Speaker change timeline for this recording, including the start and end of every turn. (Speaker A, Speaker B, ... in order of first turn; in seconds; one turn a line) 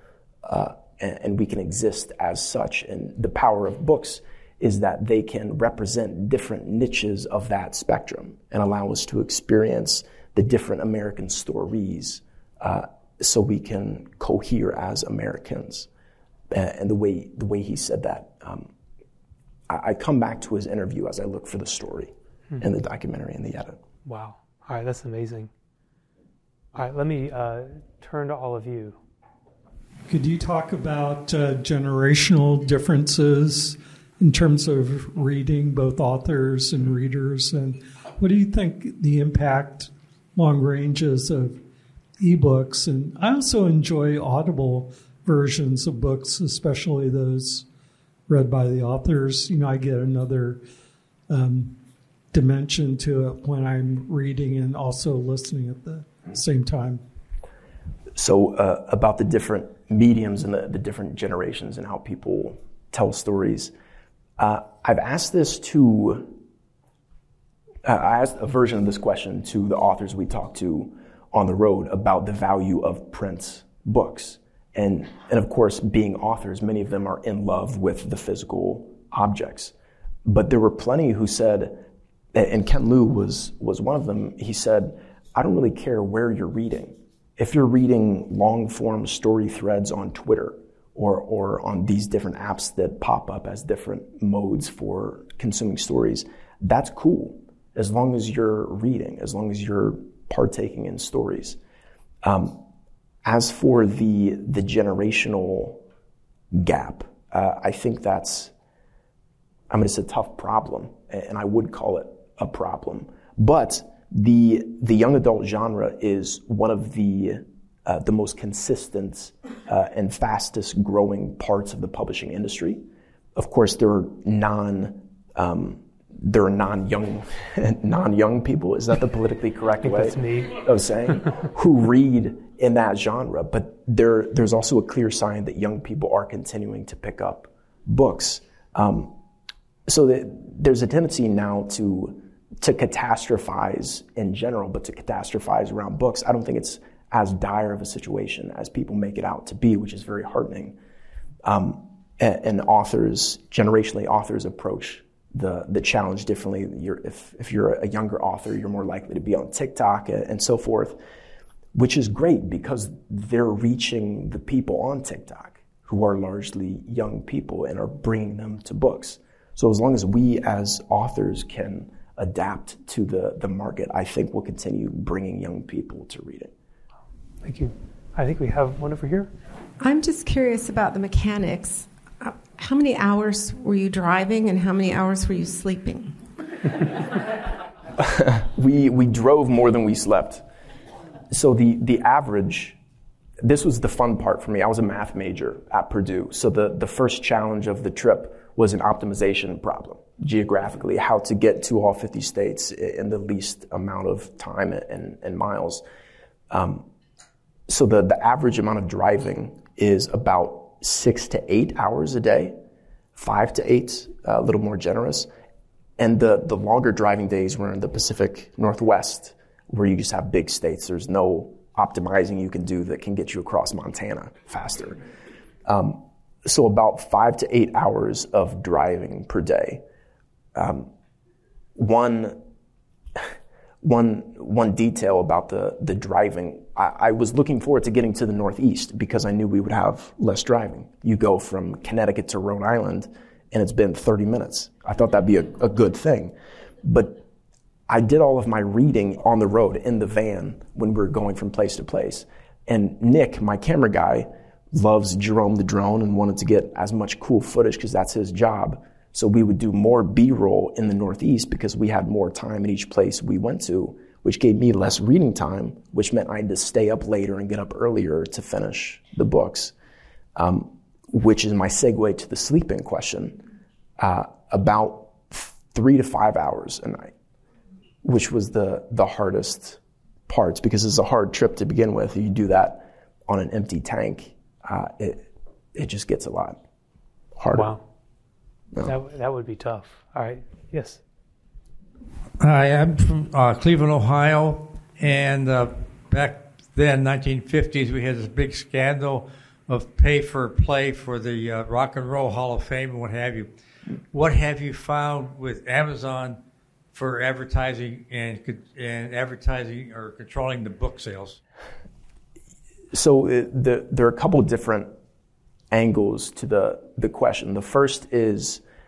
Speaker A: 0.4-15.9
Speaker A: 16.5-18.7
Speaker A: 19.7-23.8
Speaker B: 24.0-25.5
Speaker B: 26.7-29.0
Speaker C: 30.1-41.6
Speaker C: 42.2-47.6
Speaker C: 48.3-50.6
Speaker C: 51.3-51.8
Speaker C: 52.3-57.0
Speaker A: 58.1-63.7
Speaker A: 64.4-66.3
Speaker A: 67.8-79.7
Speaker A: 80.2-101.6
Speaker A: 102.2-102.6
Speaker A: 103.2-105.8
Speaker A: 106.5-108.5
Speaker A: 109.7-122.8
Speaker A: 123.3-139.1
Speaker B: 129.8-130.6
Speaker A: 139.9-150.8
Speaker A: 151.4-161.0
Speaker A: 161.7-176.5
Speaker B: 177.4-179.3
Speaker D: 179.8-186.2
Speaker A: 188.0-190.4
Speaker A: 191.3-192.8
Speaker A: 193.4-205.8
Speaker A: 206.5-206.8
Speaker A: 207.7-212.5
Speaker A: 213.1-215.3
Speaker A: 216.0-225.0
Speaker A: 225.7-229.8
Speaker A: 230.5-230.9
Speaker A: 231.8-232.4
Speaker A: 233.8-247.2
Speaker A: 247.9-269.7
Speaker A: 270.4-273.4
Speaker A: 274.0-277.1
Speaker A: 278.0-286.6
Speaker A: 287.4-287.7
Speaker B: 287.5-287.8
Speaker B: 288.8-291.0
Speaker E: 292.4-303.5
Speaker E: 304.1-306.4
Speaker E: 306.9-311.4
Speaker A: 312.9-314.9
Speaker A: 315.7-318.6